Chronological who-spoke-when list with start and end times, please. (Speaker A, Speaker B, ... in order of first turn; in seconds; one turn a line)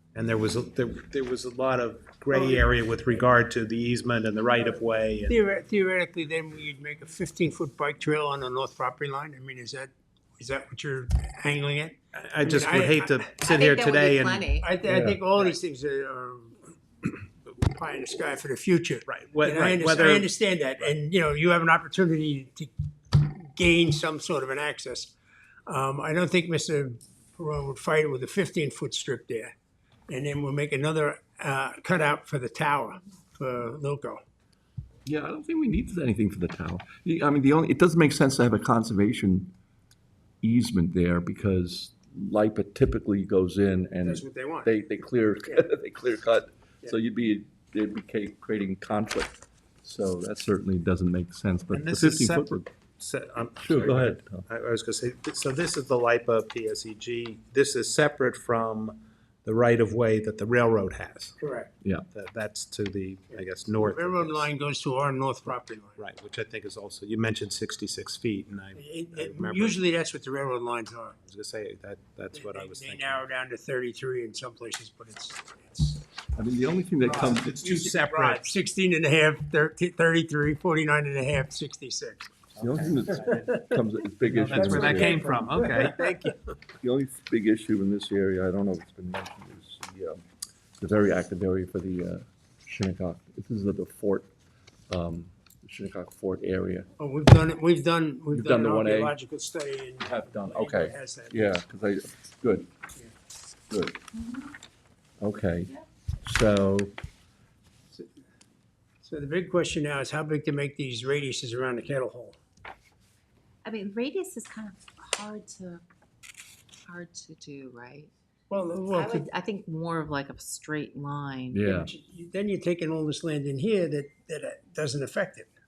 Speaker A: 0.1-5.3
Speaker B: 2.3-2.6
Speaker B: 5.3-13.3
Speaker A: 12.1-14.5
Speaker C: 13.4-14.7
Speaker B: 14.6-25.1
Speaker D: 14.9-15.2
Speaker A: 19.1-20.9
Speaker B: 25.7-29.5
Speaker B: 30.1-34.2
Speaker D: 35.0-39.5
Speaker D: 40.4-52.7
Speaker B: 44.0-44.7
Speaker A: 51.7-61.4
Speaker D: 53.6-54.4
Speaker B: 61.4-61.7
Speaker A: 62.1-64.5
Speaker B: 63.3-66.0
Speaker A: 66.0-69.8
Speaker B: 68.7-71.2
Speaker A: 71.2-73.2
Speaker B: 72.3-76.0
Speaker D: 76.3-77.8
Speaker B: 77.1-82.3
Speaker A: 77.2-78.4
Speaker A: 82.5-83.5
Speaker D: 82.6-85.2
Speaker A: 84.2-86.3
Speaker B: 84.5-86.3
Speaker D: 86.8-90.2
Speaker D: 90.8-94.3
Speaker D: 94.9-96.9
Speaker B: 97.0-101.5
Speaker D: 98.3-99.2
Speaker D: 100.0-102.7
Speaker D: 103.7-104.0
Speaker C: 104.2-104.5
Speaker D: 105.2-105.7
Speaker D: 106.2-107.0
Speaker B: 109.0-112.3
Speaker C: 113.6-115.8
Speaker C: 116.8-118.1
Speaker B: 118.5-119.3
Speaker C: 118.9-121.6
Speaker D: 121.5-121.9
Speaker B: 121.6-125.5